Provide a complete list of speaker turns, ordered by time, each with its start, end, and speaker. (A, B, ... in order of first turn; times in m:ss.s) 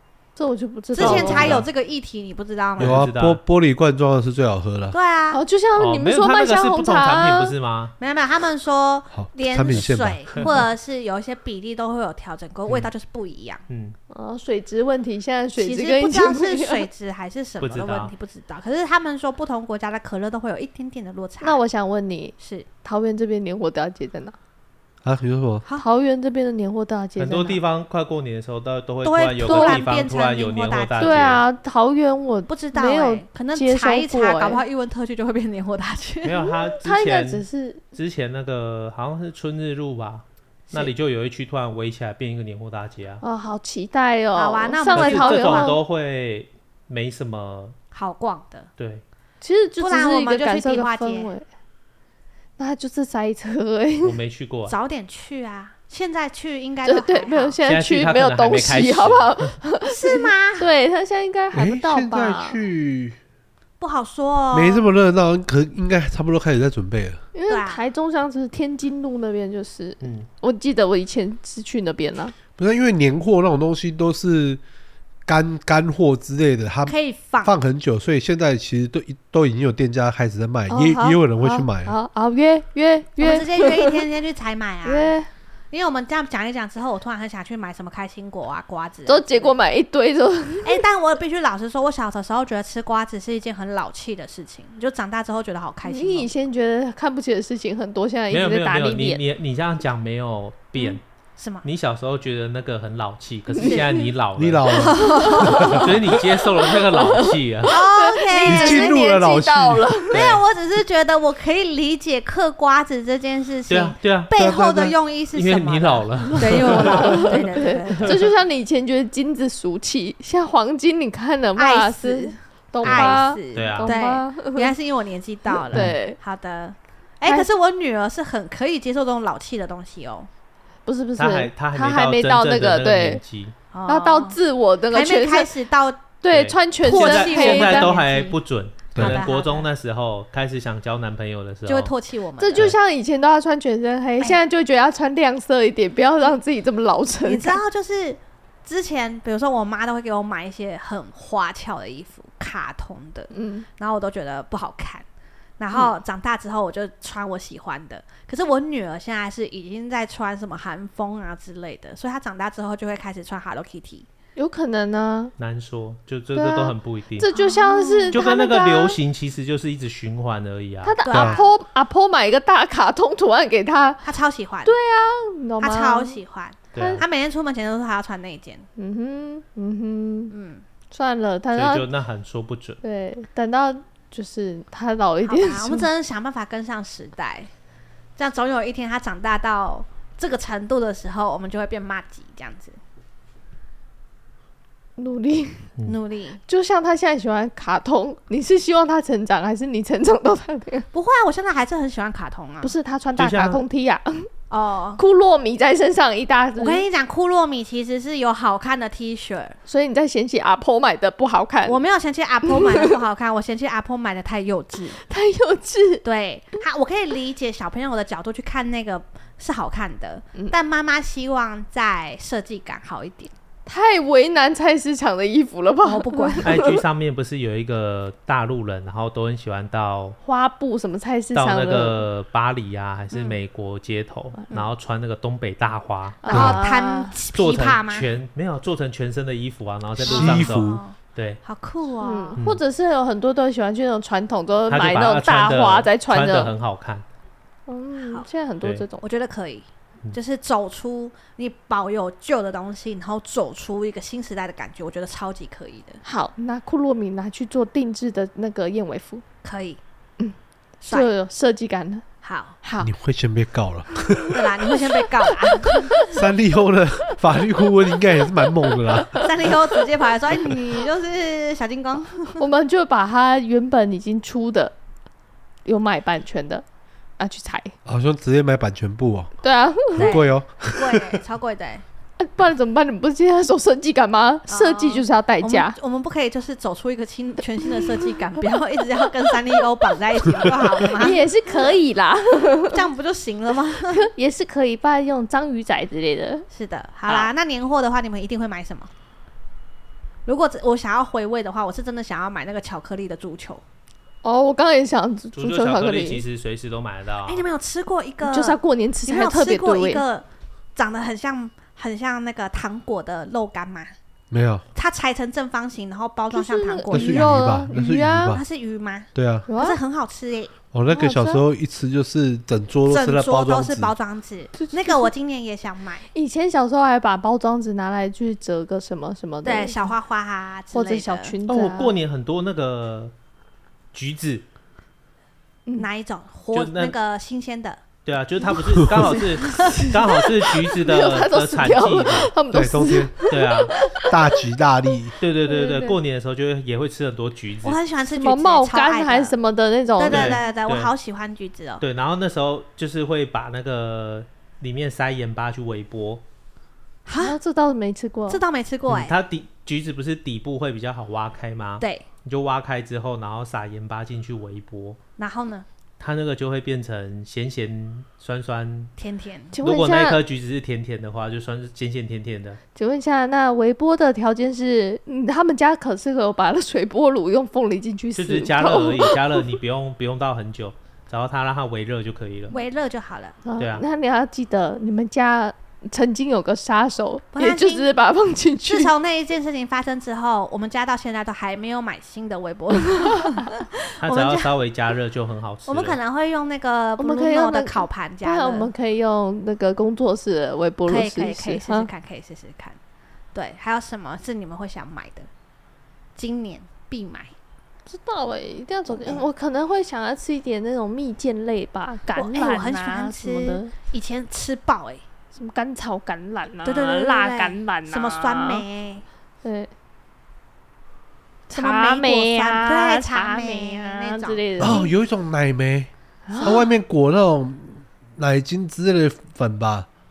0:00.4-0:01.6 A
0:00.9-0:03.0 B
0:01.0-0:01.7 C
0:02.8-0:03.4 C
0:02.8-0:05.0 D
0:04.9-0:05.4 B
0:05.3-0:07.5 A
0:05.8-0:07.9 C
0:08.0-0:13.6 B
0:09.1-0:10.2 D
0:10.3-0:10.7 C
0:13.7-0:14.0 C
0:14.1-0:16.9 A
0:15.6-0:21.6 B
0:17.6-0:18.1 C
0:21.4-0:24.4 A
0:22.4-0:22.7 B
0:25.0-0:25.6 D
0:25.8-0:27.6 A
0:27.2-0:31.4 C
0:29.0-0:31.4 B
0:29.4-0:29.9 A
0:31.0-0:34.6 A
0:32.5-0:36.5 B
0:36.2-0:43.2 C
0:36.8-0:37.8 A
0:43.2-0:45.8 A
0:44.3-0:45.7 B
0:44.9-0:47.8 C
0:47.9-0:48.7 B
0:48.8-0:49.0 C
0:49.4-0:51.4 A
0:49.8-0:51.3 B
0:52.6-0:54.2 A
0:54.0-0:54.8 C
0:54.7-0:57.6 B
0:56.8-1:02.6 A
0:57.6-0:59.6 C
0:59.9-1:00.7 B
1:01.5-1:03.2 D
1:03.8-1:04.8 B
1:04.5-1:07.2 D
1:07.3-1:12.3 A
1:07.5-1:07.8 B
1:10.0-1:10.3 C
1:12.6-1:14.6 D
1:15.2-1:21.9 D
1:16.8-1:17.5 B
1:20.7-1:24.0 A
1:23.2-1:25.1 B
1:24.8-1:25.3 A
1:25.7-1:29.5 B
1:29.1-1:30.8 A
1:30.6-1:36.3 B
1:35.8-1:39.2 A
1:38.3-1:41.0 C
1:40.8-1:41.6 B
1:41.6-1:45.0 C
1:43.6-1:44.0 A
1:43.6-1:43.9 B
1:44.4-1:46.0 D
1:44.7-1:45.9 B
1:45.0-1:45.8 A
1:45.5-1:47.8 C
1:46.6-1:50.2 A
1:47.7-1:49.0 B
1:48.4-1:49.9 D
1:50.1-1:50.4 C
1:50.1-1:58.3 B
1:53.7-1:54.3 C
1:54.3-1:54.9 D
1:55.3-1:57.4 C
1:56.4-2:04.7 A
2:01.6-2:10.3 B
2:02.8-2:03.9 C
2:05.5-2:06.2 A
2:10.8-2:13.2 A
2:11.2-2:13.6 C
2:13.7-2:14.4 B
2:13.9-2:15.5 A
2:14.9-2:16.0 B
2:16.2-2:18.0 A
2:16.3-2:21.9 C
2:16.8-2:18.4 B
2:18.9-2:19.2 D
2:19.0-2:19.7 B
2:21.6-2:22.7 B
2:22.4-2:27.6 A
2:27.2-2:35.0 B
2:33.3-2:33.7 A
2:35.6-2:44.1 B
2:44.4-2:45.3 A
2:45.4-2:47.3 C
2:46.3-2:49.0 A
2:47.3-2:48.4 B
2:48.1-2:51.3 C
2:50.8-2:54.0 A
2:51.0-2:51.5 B
2:51.1-2:51.4 D
2:54.0-2:54.7 B
2:54.6-2:56.2 A
2:55.6-2:58.7 B
2:56.7-2:57.0 C
2:56.7-2:57.0 A
2:58.8-3:00.3 A
3:00.3-3:00.6 B
3:00.9-3:01.8 A
3:01.5-3:02.8 C
3:02.8-3:05.9 A
3:05.2-3:07.5 B
3:08.2-3:12.8 B
3:15.0-3:15.7 A
3:15.8-3:16.4 B
3:16.5-3:20.9 A
3:20.9-3:22.7 B
3:22.6-3:24.3 A
3:23.2-3:23.6 C
3:24.5-3:25.0 B
3:25.0-3:26.8 A
3:26.6-3:29.6 B
3:29.6-3:31.8 A
3:31.6-3:35.0 B
3:32.4-3:32.9 A
3:35.0-3:36.0 A
3:36.0-3:43.3 B
3:43.6-3:46.8 A
3:45.8-3:46.5 B
3:46.4-3:50.2 C
3:50.2-3:52.0 A
3:51.3-3:56.6 C
3:53.1-3:53.4 B
3:56.2-3:57.1 A
3:56.3-3:58.1 B
3:57.3-4:01.4 C
4:00.0-4:00.8 D
4:00.0-4:02.4 B
4:02.0-4:06.5 A
4:04.7-4:07.0 C
4:07.7-4:09.0 A
4:09.0-4:16.0 B
4:16.0-4:19.2 A
4:19.4-4:19.8 B
4:20.9-4:22.0 A
4:22.2-4:22.6 B
4:22.6-4:22.9 A
4:22.8-4:24.6 D
4:24.3-4:26.1 B
4:26.1-4:29.5 D
4:29.2-4:32.4 B
4:32.4-4:34.7 A
4:35.6-4:36.6 A
4:37.2-4:37.7 A
4:37.8-4:39.3 D
4:39.4-4:40.1 A
4:39.9-4:41.2 D
4:40.0-4:41.8 B
4:42.2-4:45.7 A
4:44.5-4:51.2 B
4:51.0-4:52.8 A
4:52.7-4:54.1 B
4:53.9-4:56.4 A
4:56.5-4:58.9 B
5:00.2-5:03.6 B
5:04.2-5:06.2 A
5:05.3-5:07.4 C
5:07.2-5:13.9 B
5:08.2-5:10.0 A
5:14.3-5:14.6 D
5:14.7-5:17.3 B
5:16.3-5:18.4 A
5:16.9-5:18.4 D
5:18.3-5:20.5 B
5:19.1-5:19.5 D
5:19.5-5:19.8 A
5:20.7-5:23.9 D
5:20.9-5:21.4 A
5:22.9-5:26.1 B
5:24.6-5:25.1 A
5:26.1-5:29.9 A
5:29.4-5:31.3 B
5:30.7-5:31.9 A
5:31.4-5:33.1 C
5:33.9-5:34.4 C
5:35.8-5:37.8 B
5:36.5-5:36.9 C
5:38.0-5:42.3 C
5:38.9-5:44.4 A
5:42.5-5:43.2 D
5:43.3-5:43.7 C
5:44.0-5:45.1 D
5:45.2-5:47.8 C
5:45.4-5:46.0 A
5:47.6-5:49.3 B
5:48.0-5:50.5 A
5:50.0-5:51.8 B
5:50.1-5:50.9 C
5:51.8-5:56.2 C
5:57.0-5:57.4 B
5:57.2-5:58.4 A
5:58.3-5:59.1 B
5:58.9-6:05.0 C
6:01.8-6:02.0 B
6:05.2-6:05.6 B
6:06.0-6:08.9 C
6:09.0-6:09.5 B
6:09.5-6:10.2 A
6:09.6-6:12.6 C
6:12.8-6:19.4 A
6:18.2-6:22.6 C
6:22.5-6:23.4 B
6:23.4-6:28.9 A
6:23.6-6:23.8 C
6:27.3-6:27.9 B
6:28.6-6:34.5 B
6:34.0-6:36.0 C
6:35.7-6:38.7 B
6:37.0-6:41.9 A
6:40.9-6:42.8 B
6:43.3-6:45.3 B
6:46.2-6:47.3 B
6:47.9-6:53.7 A
6:48.9-6:49.2 B
6:52.1-6:55.0 B
6:55.3-6:58.6 A
6:56.6-6:59.0 B
6:59.4-6:59.7 A
7:01.5-7:04.9 A
7:01.5-7:04.8 B
7:04.6-7:09.9 D
7:06.3-7:06.7 A